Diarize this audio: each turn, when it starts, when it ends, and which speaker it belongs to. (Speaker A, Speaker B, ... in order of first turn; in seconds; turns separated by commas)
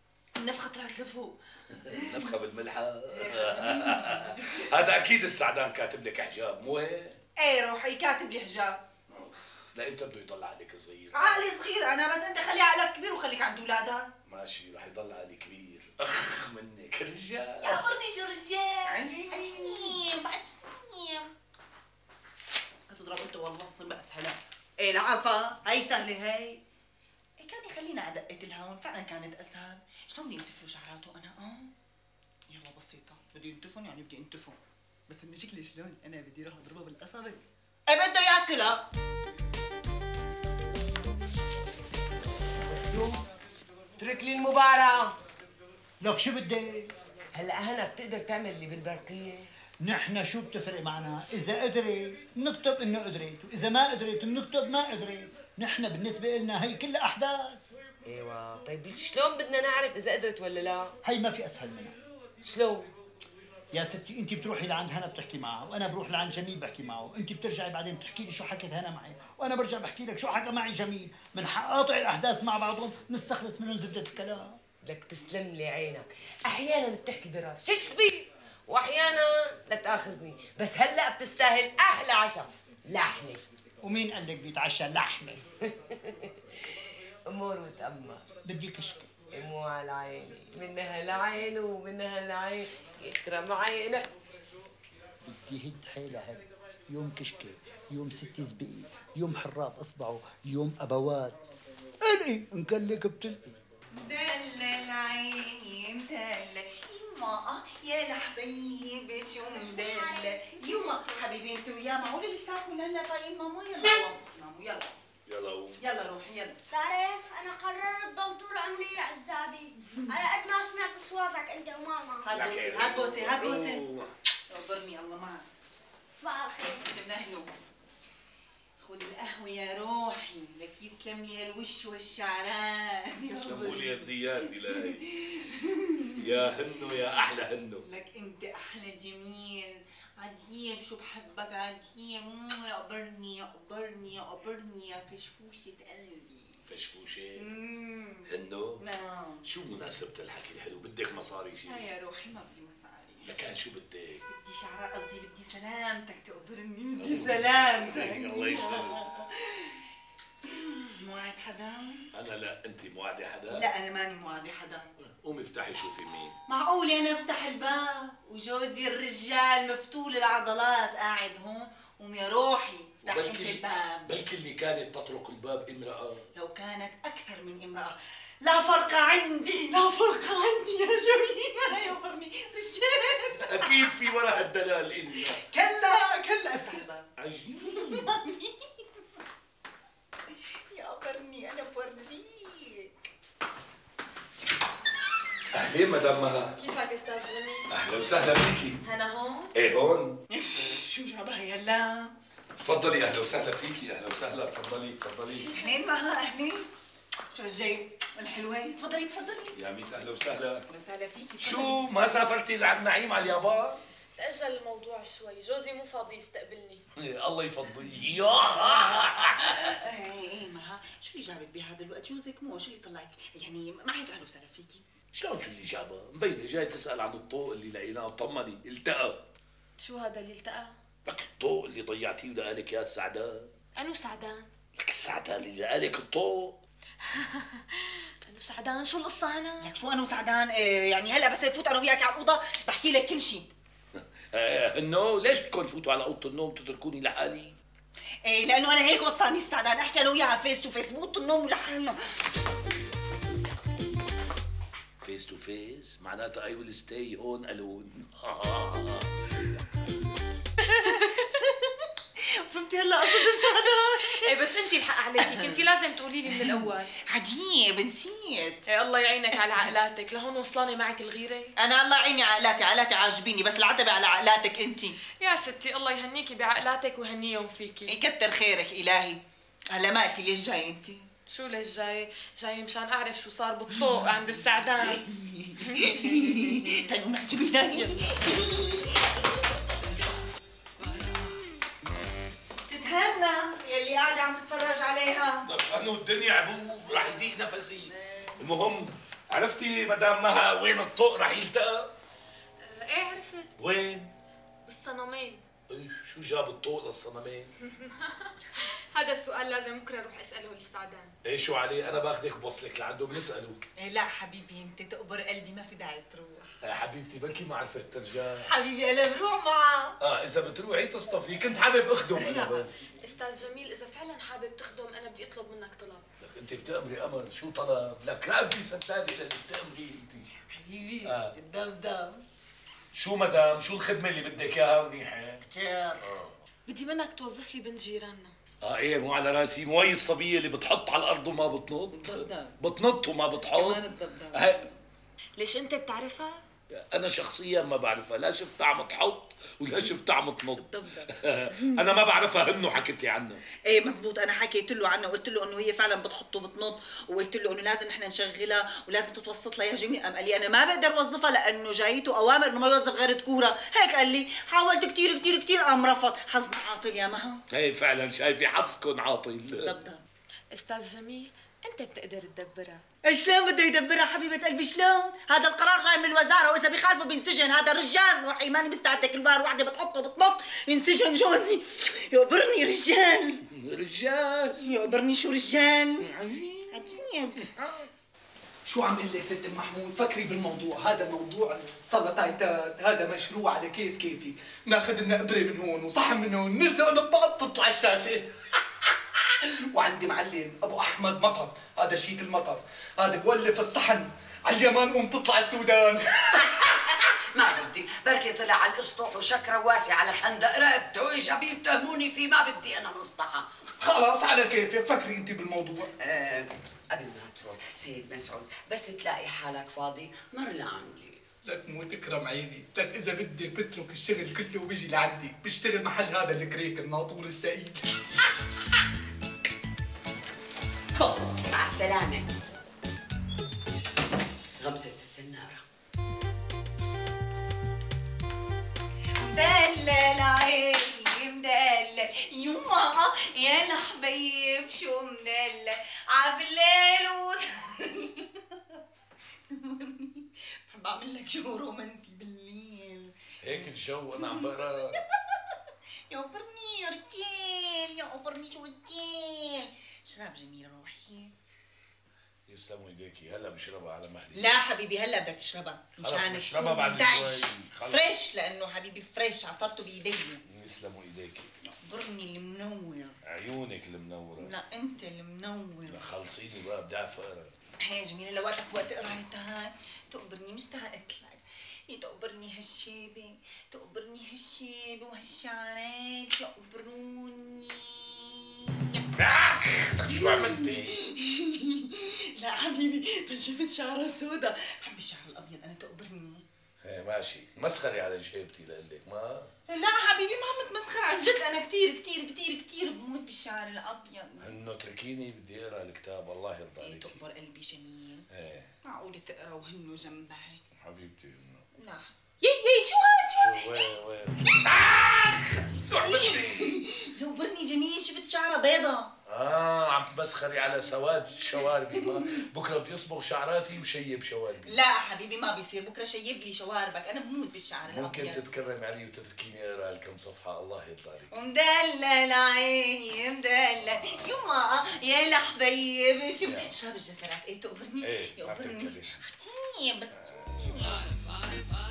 Speaker A: 0.4-2.3, Speaker B: 1.8-7.2, Speaker A: 3.1-4.7, Speaker A: 7.4-8.8, Speaker B: 9.1-11.5, Speaker A: 11.1-14.1, Speaker B: 14.3-17.9, Speaker A: 17.6-21.3, Speaker B: 18.9-19.2, Speaker A: 22.9-26.6, Speaker A: 27.4-31.7, Speaker A: 32.5-38.8, Speaker C: 42.7-43.2, Speaker C: 44.0-45.1, Speaker D: 46.0-46.9, Speaker C: 47.3-49.5, Speaker D: 49.8-57.8, Speaker C: 58.0-60.9, Speaker D: 61.0-62.0, Speaker C: 62.4-62.9, Speaker D: 63.7-74.6, Speaker C: 74.8-83.4, Speaker D: 83.8-85.4, Speaker C: 85.9-86.3, Speaker C: 87.3-88.2, Speaker D: 88.4-89.1, Speaker C: 89.3-94.1, Speaker D: 95.2-101.4, Speaker D: 102.0-103.6, Speaker A: 104.0-114.9, Speaker E: 109.5-111.2, Speaker B: 115.3-115.8, Speaker A: 115.8-116.6, Speaker E: 116.7-122.2, Speaker A: 122.2-123.8, Speaker B: 122.3-124.1, Speaker A: 124.5-125.5, Speaker A: 126.2-127.5, Speaker A: 128.8-136.5, Speaker B: 133.3-135.0, Speaker B: 136.2-137.8, Speaker A: 137.8-146.6, Speaker B: 146.7-147.5, Speaker A: 147.4-149.4, Speaker B: 148.3-148.8, Speaker B: 149.4-151.9, Speaker A: 151.7-153.4, Speaker B: 153.2-154.2, Speaker A: 154.3-159.8, Speaker B: 157.0-159.0, Speaker A: 160.4-162.1, Speaker B: 162.1-163.7, Speaker A: 163.5-164.9, Speaker B: 165.1-166.3, Speaker A: 166.5-174.2, Speaker B: 173.0-176.2, Speaker A: 176.4-183.8, Speaker B: 183.4-185.4, Speaker A: 185.2-187.1, Speaker B: 187.2-188.1, Speaker A: 187.6-188.5, Speaker A: 190.7-192.9, Speaker B: 195.5-196.6, Speaker F: 196.6-197.7, Speaker B: 197.7-198.8, Speaker F: 198.8-199.5, Speaker B: 199.5-200.2, Speaker A: 200.3-202.1, Speaker B: 202.6-205.5, Speaker F: 205.5-205.8, Speaker A: 205.5-206.7, Speaker A: 207.3-209.6, Speaker B: 209.6-210.7, Speaker A: 210.7-211.8, Speaker B: 211.4-213.8, Speaker F: 214.2-216.8, Speaker B: 216.9-219.7, Speaker A: 218.5-224.8, Speaker B: 225.1-229.2, Speaker F: 229.8-230.7, Speaker B: 231.1-233.5, Speaker F: 233.8-234.5, Speaker B: 234.8-236.6, Speaker F: 237.1-239.7, Speaker A: 239.6-243.5, Speaker B: 244.3-247.6, Speaker A: 248.3-252.0, Speaker B: 255.0-259.1, Speaker A: 260.6-261.7, Speaker A: 262.5-264.6, Speaker F: 264.2-266.9, Speaker A: 265.2-265.7, Speaker A: 266.2-268.6, Speaker F: 268.7-271.5, Speaker A: 271.6-274.9, Speaker F: 275.2-277.9, Speaker A: 277.9-279.2, Speaker A: 279.7-281.1, Speaker F: 281.3-285.0, Speaker A: 283.8-284.2, Speaker A: 284.8-289.1, Speaker F: 285.6-286.2, Speaker A: 292.7-295.5, Speaker B: 295.4-301.9, Speaker A: 297.9-298.4, Speaker F: 302.6-303.5, Speaker B: 303.6-304.1, Speaker F: 304.7-305.4, Speaker B: 305.7-307.5, Speaker F: 307.7-311.1, Speaker B: 311.2-313.6, Speaker A: 313.8-316.5, Speaker B: 316.6-318.4, Speaker A: 318.5-319.9, Speaker B: 320.0-322.7, Speaker A: 322.1-322.7, Speaker F: 323.0-326.0, Speaker B: 326.2-330.3, Speaker A: 330.3-332.2, Speaker B: 331.0-331.3, Speaker B: 332.9-335.4, Speaker A: 335.5-336.0, Speaker B: 336.0-336.4, Speaker F: 336.7-338.3, Speaker B: 338.6-344.7, Speaker A: 341.9-342.6, Speaker A: 343.4-344.6, Speaker F: 345.4-346.4, Speaker B: 346.7-353.4, Speaker A: 350.6-352.0, Speaker A: 353.7-367.4, Speaker B: 367.5-369.7, Speaker A: 369.6-370.0, Speaker F: 370.5-372.8, Speaker A: 373.1-383.5, Speaker B: 383.5-384.6, Speaker A: 384.6-386.1, Speaker B: 386.0-387.8, Speaker A: 386.7-387.6, Speaker G: 388.7-398.3, Speaker G: 399.3-406.2, Speaker H: 407.3-413.4, Speaker G: 413.8-415.9, Speaker H: 416.0-421.2, Speaker G: 421.5-427.9, Speaker H: 431.4-432.3, Speaker H: 434.6-435.6, Speaker A: 439.2-448.4, Speaker A: 449.5-455.1, Speaker B: 453.4-455.0, Speaker A: 456.1-461.3, Speaker B: 462.5-464.5, Speaker A: 464.3-470.4, Speaker B: 466.0-468.1, Speaker B: 470.5-471.5, Speaker A: 471.7-473.2, Speaker B: 473.3-474.5, Speaker A: 474.4-476.1, Speaker B: 475.9-477.5, Speaker A: 477.9-489.1, Speaker B: 489.2-490.9, Speaker A: 490.0-496.4, Speaker B: 496.8-499.5, Speaker A: 499.7-504.6, Speaker B: 504.4-507.2, Speaker A: 506.8-508.2, Speaker B: 508.3-508.7, Speaker A: 508.9-510.6, Speaker B: 510.8-511.6, Speaker A: 511.7-514.6, Speaker B: 513.4-516.8, Speaker A: 515.9-519.1, Speaker B: 519.3-524.8, Speaker A: 521.6-522.4, Speaker A: 524.7-528.5, Speaker B: 527.9-531.3, Speaker A: 531.3-541.1, Speaker B: 533.8-534.2, Speaker B: 538.0-539.2, Speaker B: 540.2-541.0